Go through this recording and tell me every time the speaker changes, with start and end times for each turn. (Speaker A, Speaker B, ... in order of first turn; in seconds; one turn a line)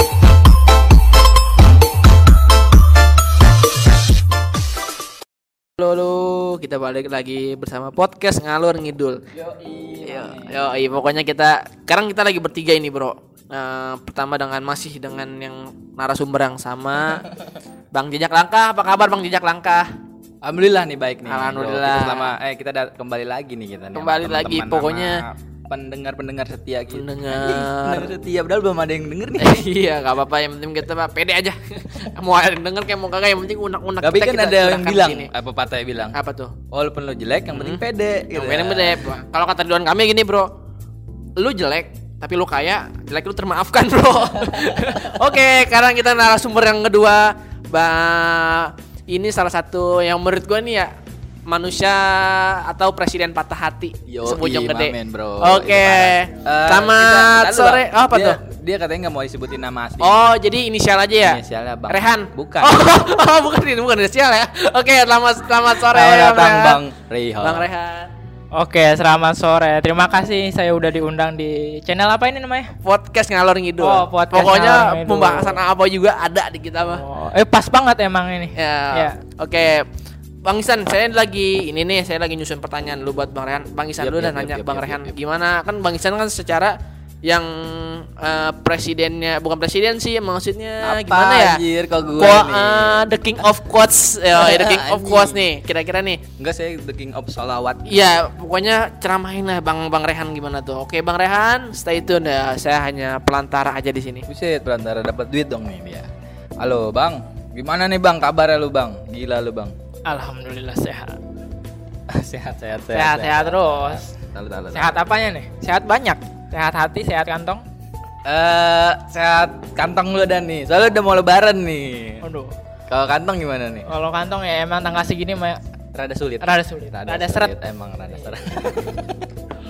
Speaker A: 5.8-9.2
Speaker B: 9.3-10.6
Speaker A: 10.0-17.3
Speaker A: 17.9-19.9
Speaker B: 20.4-29.6
Speaker A: 21.3-22.3
Speaker A: 23.9-25.2
Speaker A: 26.9-28.1
Speaker A: 29.4-35.3
Speaker B: 34.0-36.2
Speaker A: 36.1-36.5
Speaker B: 36.7-39.1
Speaker A: 37.5-40.5
Speaker A: 41.4-50.9
Speaker A: 51.5-58.4
Speaker B: 54.1-60.2
Speaker A: 60.0-66.8
Speaker B: 61.2-62.8
Speaker B: 65.9-67.7
Speaker A: 67.4-68.1
Speaker C: 68.5-72.7
Speaker A: 72.8-77.0
Speaker C: 73.8-75.6
Speaker C: 76.9-79.2
Speaker A: 78.5-79.9
Speaker A: 80.4-91.6
Speaker B: 84.0-85.1
Speaker B: 90.8-93.1
Speaker A: 92.2-96.2
Speaker B: 94.3-95.4
Speaker B: 96.4-98.0
Speaker A: 97.8-104.3
Speaker B: 104.3-106.1
Speaker B: 106.6-109.7
Speaker C: 110.0-111.2
Speaker B: 112.1-115.0
Speaker C: 112.9-114.1
Speaker C: 114.7-117.6
Speaker B: 118.2-122.2
Speaker C: 122.2-122.5
Speaker B: 122.9-123.9
Speaker C: 123.9-125.6
Speaker B: 125.9-129.2
Speaker C: 126.4-127.5